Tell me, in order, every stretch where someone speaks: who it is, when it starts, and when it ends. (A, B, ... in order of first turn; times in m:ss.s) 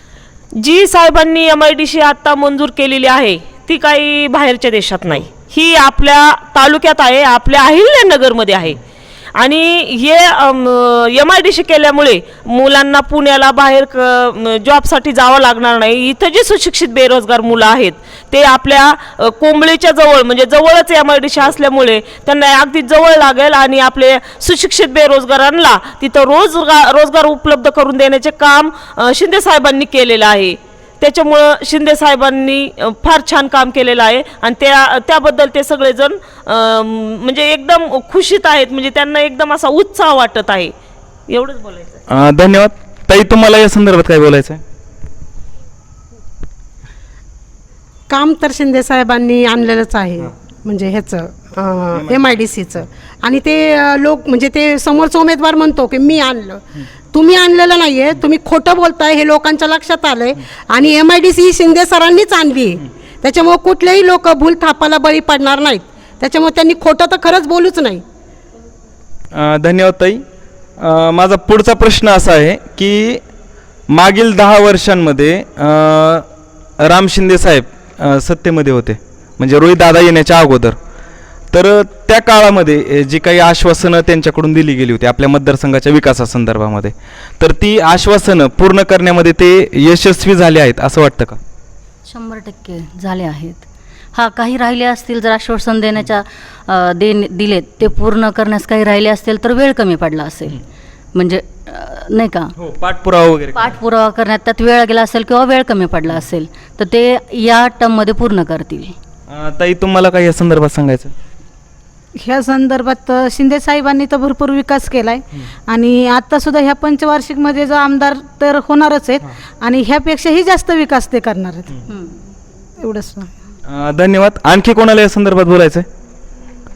0:00.6-0:08.8 A
0:09.4-0:40.7 A
0:41.3-0:42.0 A
0:42.1-0:44.6 B
0:48.1-1:08.0 C
0:52.0-0:52.3 B
1:09.3-1:10.2 B
1:10.8-1:13.2 B
1:13.9-1:16.3 B
1:16.8-1:20.8 B
1:21.5-1:31.4 B
1:32.0-1:33.6 D
1:34.1-1:40.6 D
1:41.1-1:42.5 D
1:42.6-1:43.8 B
1:43.5-1:48.9 D
1:49.3-1:51.1 B
1:52.2-2:01.7 E
2:02.8-2:03.3 E
2:03.7-2:05.9 B